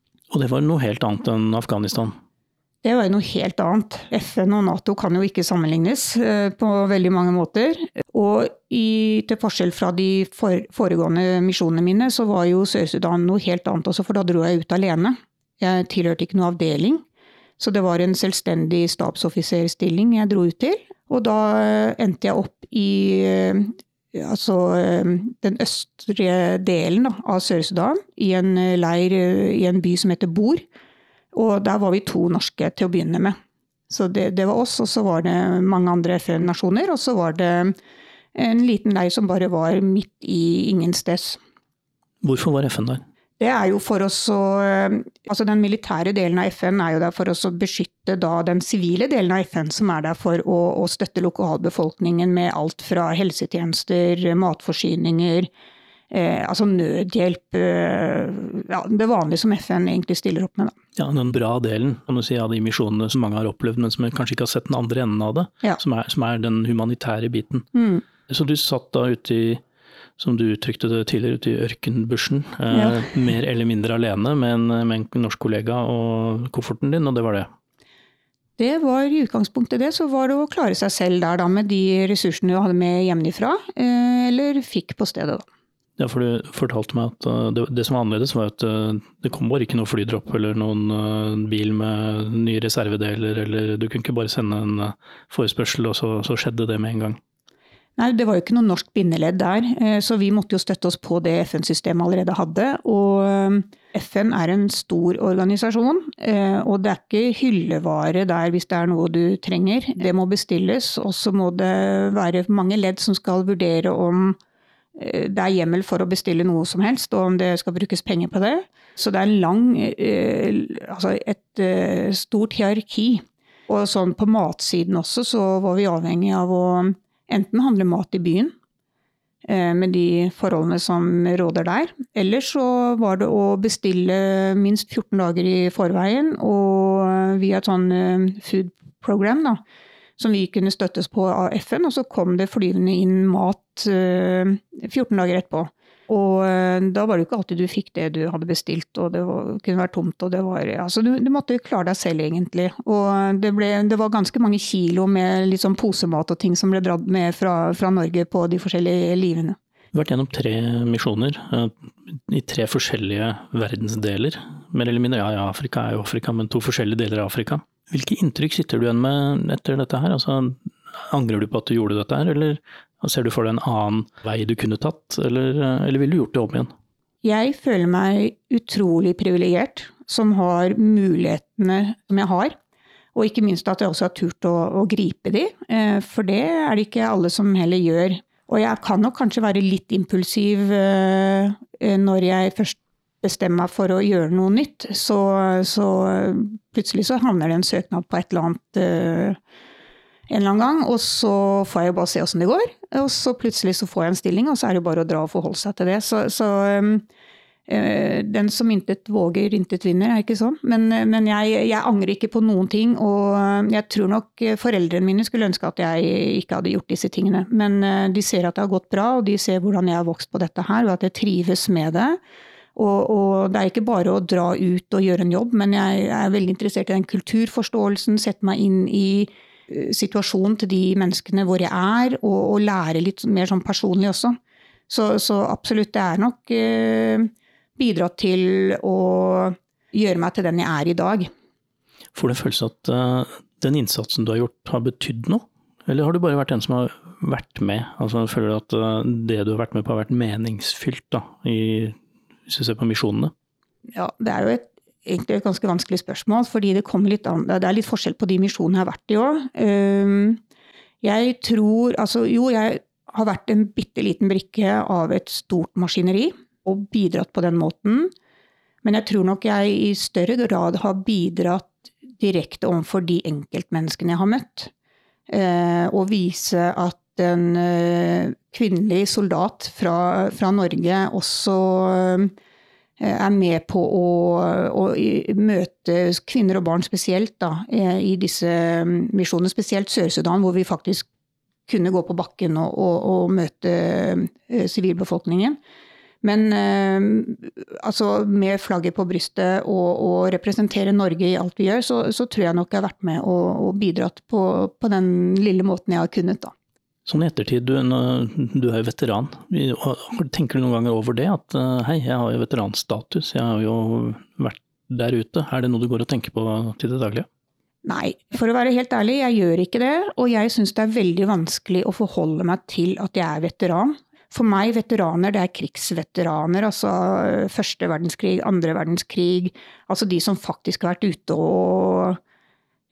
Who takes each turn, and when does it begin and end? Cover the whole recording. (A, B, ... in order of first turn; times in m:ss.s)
0:00.3-0:02.1 A
0:02.8-0:17.0 B
0:17.6-0:30.6 B
0:31.3-0:33.4 B
0:33.9-0:37.8 B
0:38.4-0:41.4 B
0:42.2-0:43.0 A
0:43.4-0:55.5 B
0:56.1-1:00.7 B
1:01.0-1:07.7 A
1:07.7-1:08.0 B
1:08.3-1:09.6 A
1:10.2-1:17.5 A
1:12.7-1:13.1 B
1:18.6-1:25.4 B
1:26.0-1:37.2 A
1:38.0-1:54.4 B
1:55.0-2:08.5 B
2:09.5-2:19.6 B
2:20.2-2:39.6 B
2:39.9-2:56.7 A
2:57.2-3:02.6 B
3:03.2-3:19.4 B
3:20.3-3:27.0 B
3:27.7-3:42.2 B
3:42.8-3:54.4 B
3:54.9-4:01.3 B
4:02.1-4:13.3 A
4:14.0-4:20.4 B
4:21.0-4:28.1 B
4:28.8-4:34.7 B
4:35.3-4:42.3 B
4:43.0-4:51.1 B
4:51.7-4:55.6 B
4:56.2-5:06.5 B
5:07.1-5:17.3 A
5:17.8-5:32.2 B